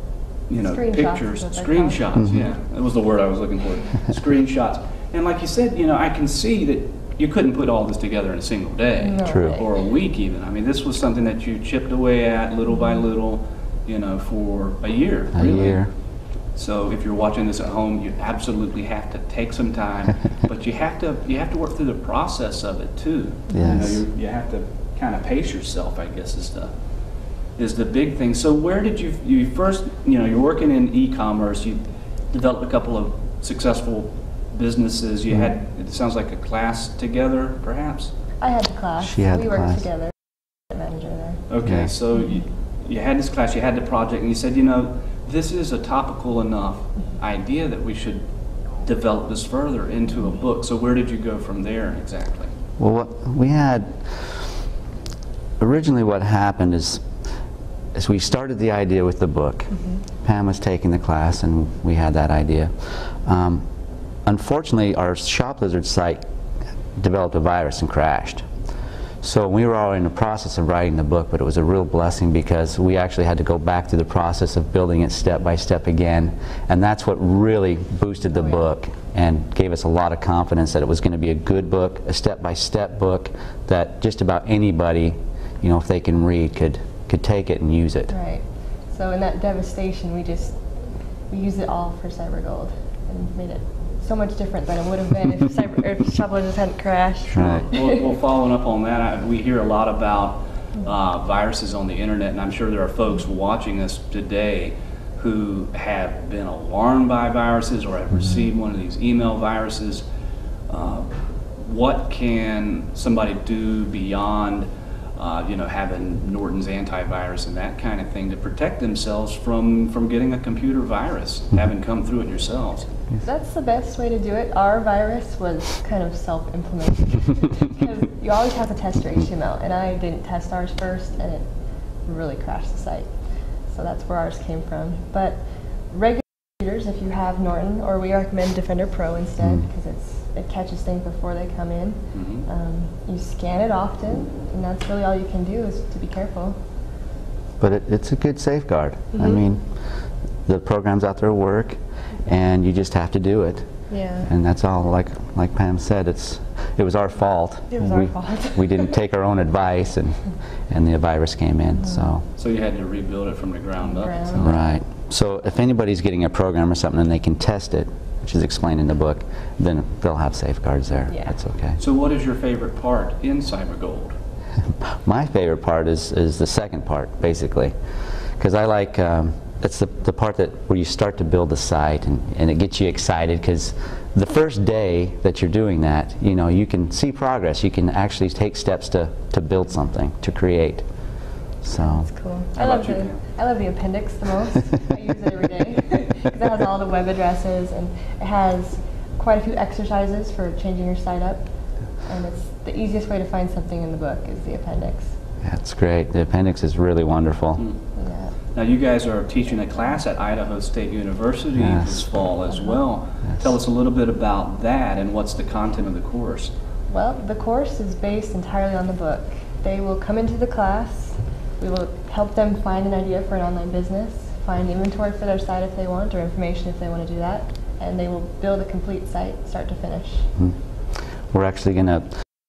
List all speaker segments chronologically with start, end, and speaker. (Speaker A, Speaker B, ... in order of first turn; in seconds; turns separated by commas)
Speaker A: 0.5-15.8, Speaker B: 0.6-2.5, Speaker C: 2.2-2.4, Speaker B: 9.0-9.7, Speaker C: 9.2-9.6, Speaker C: 15.3-15.9, Speaker A: 16.6-26.7, Speaker C: 23.5-24.0, Speaker B: 23.5-23.9, Speaker A: 27.6-38.1, Speaker B: 38.4-40.1, Speaker C: 39.0-39.9, Speaker B: 40.7-41.4, Speaker A: 41.5-48.2, Speaker C: 41.6-41.9, Speaker A: 48.8-52.5, Speaker C: 52.8-54.6, Speaker C: 55.6-57.0, Speaker C: 57.9-63.6, Speaker B: 59.7-60.0, Speaker C: 64.2-66.2, Speaker C: 67.0-68.5, Speaker C: 69.2-88.1, Speaker B: 78.3-78.6, Speaker B: 88.1-98.0, Speaker A: 97.2-110.0, Speaker C: 97.3-97.7, Speaker A: 110.7-122.9, Speaker B: 123.2-146.6, Speaker C: 139.4-139.7, Speaker A: 142.1-142.4, Speaker C: 147.6-162.2, Speaker B: 149.1-149.4, Speaker B: 153.9-154.3, Speaker B: 157.7-159.0, Speaker B: 161.8-162.2, Speaker A: 162.3-164.5, Speaker B: 163.8-164.8, Speaker C: 164.3-171.8, Speaker B: 171.1-171.3, Speaker A: 171.8-174.1, Speaker C: 174.8-177.7, Speaker C: 178.4-191.1, Speaker C: 191.6-192.1, Speaker B: 191.8-205.1, Speaker A: 192.5-193.2, Speaker C: 205.4-207.6, Speaker B: 207.9-208.3, Speaker A: 208.5-216.5, Speaker C: 211.6-212.1, Speaker B: 212.5-212.8, Speaker B: 216.9-230.3, Speaker C: 231.1-232.2